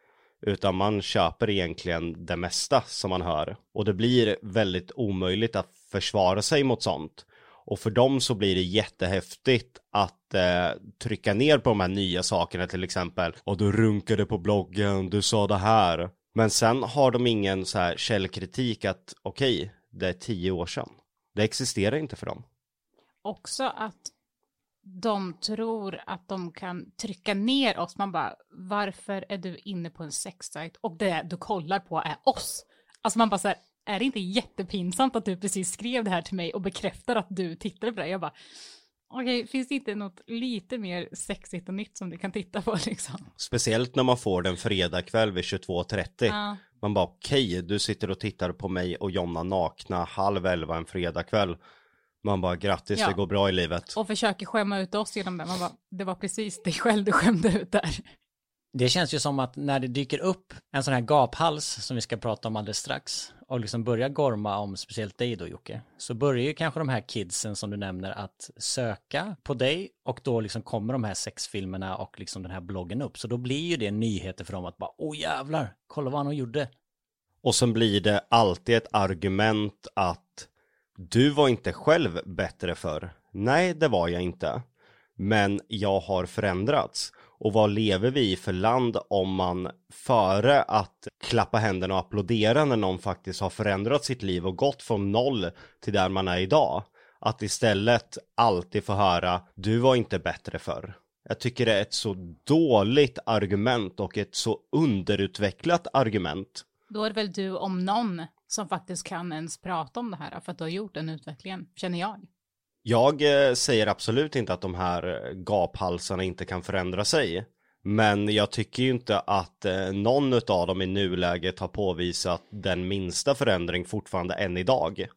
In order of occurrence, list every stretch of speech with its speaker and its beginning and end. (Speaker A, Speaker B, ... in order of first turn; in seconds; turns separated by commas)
Speaker A: 0.4-22.4, Speaker B: 23.2-24.1, Speaker B: 24.8-38.3, Speaker B: 39.1-43.3, Speaker A: 43.4-51.6, Speaker B: 46.3-46.6, Speaker A: 52.2-54.0, Speaker B: 53.9-58.1, Speaker C: 58.7-76.7, Speaker A: 77.4-84.6, Speaker A: 85.2-106.6, Speaker B: 106.9-112.3, Speaker A: 112.8-125.1